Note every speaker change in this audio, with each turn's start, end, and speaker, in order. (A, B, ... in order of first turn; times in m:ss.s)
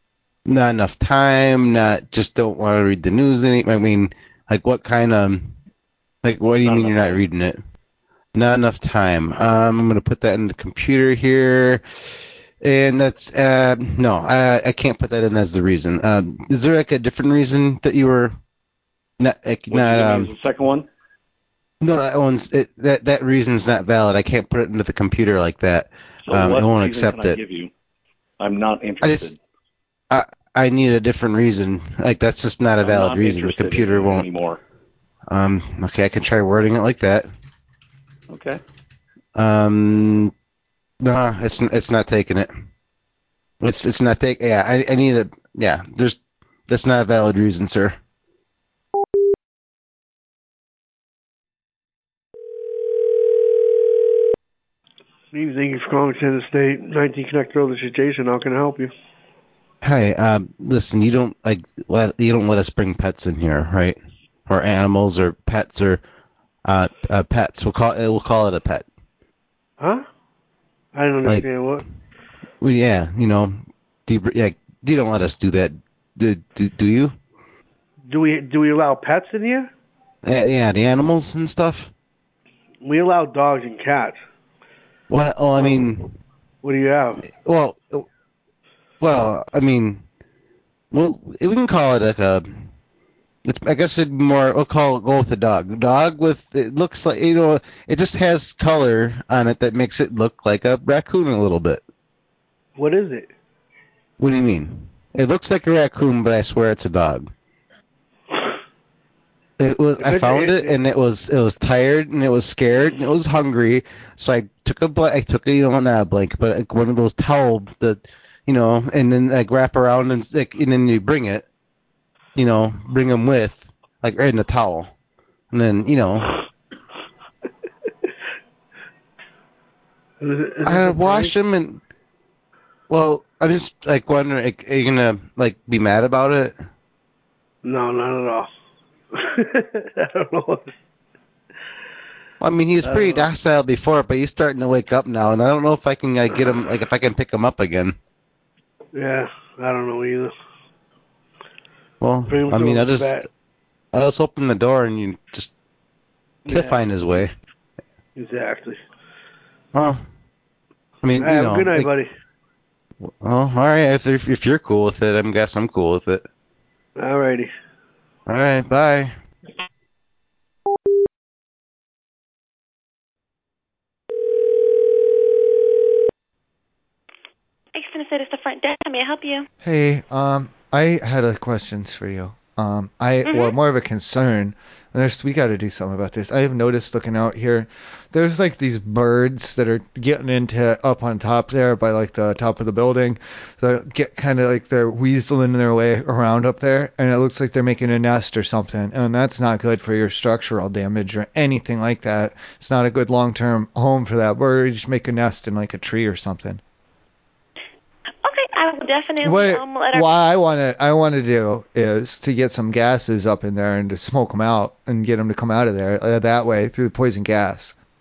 0:00.5-0:05.5 A
0:06.2-0:07.6 A
0:06.6-0:07.2 B
0:08.3-0:11.8 A
0:12.6-0:18.4 A
0:19.2-0:20.3 A
0:19.7-0:20.9 B
0:21.8-0:27.4 A
0:26.3-0:27.7 B
0:28.4-0:29.4 B
0:29.0-0:29.3 A
0:30.1-0:34.3 A
0:32.8-0:34.6 B
0:35.3-0:37.3 A
0:38.3-0:38.6 B
0:39.4-0:40.3 A
0:41.0-0:42.5 A
0:43.6-0:48.0 A
0:55.3-0:58.9 C
0:59.8-1:06.0 A
1:06.6-1:08.8 A
1:11.0-1:11.8 C
1:12.6-1:17.1 A
1:18.1-1:19.7 C
1:20.2-1:21.9 A
1:22.8-1:24.2 C
1:25.1-1:26.1 A
1:25.6-1:25.8 C
1:26.6-1:27.2 C
1:27.3-1:28.0 A
1:29.0-1:30.0 A
1:30.9-1:32.7 A
1:33.4-1:41.8 A
1:42.8-1:43.3 C
1:44.2-1:47.3 A
1:49.6-2:01.4 A
1:50.0-1:50.7 C
2:02.4-2:04.9 A
2:05.5-2:06.3 A
2:10.2-2:11.3 C
2:10.6-2:11.8 A
2:12.9-2:16.6 A
2:17.6-2:18.5 C
2:19.1-2:20.7 C
2:22.4-2:28.0 A
2:22.8-2:23.3 C
2:29.0-2:30.3 C
2:32.0-2:33.2 A
2:32.3-2:33.3 C
2:33.9-2:35.5 A
2:36.5-2:36.8 C
2:36.5-2:37.3 A
2:38.2-2:38.8 C
2:39.7-2:40.0 A
2:41.0-2:41.9 A
2:41.2-2:42.1 C
2:43.0-2:46.2 A
2:47.0-2:47.5 C
2:48.3-2:49.1 A
2:57.7-2:59.4 D
2:59.6-3:26.6 E
3:03.3-3:03.5 D
3:28.2-3:30.1 D
3:29.2-3:37.7 E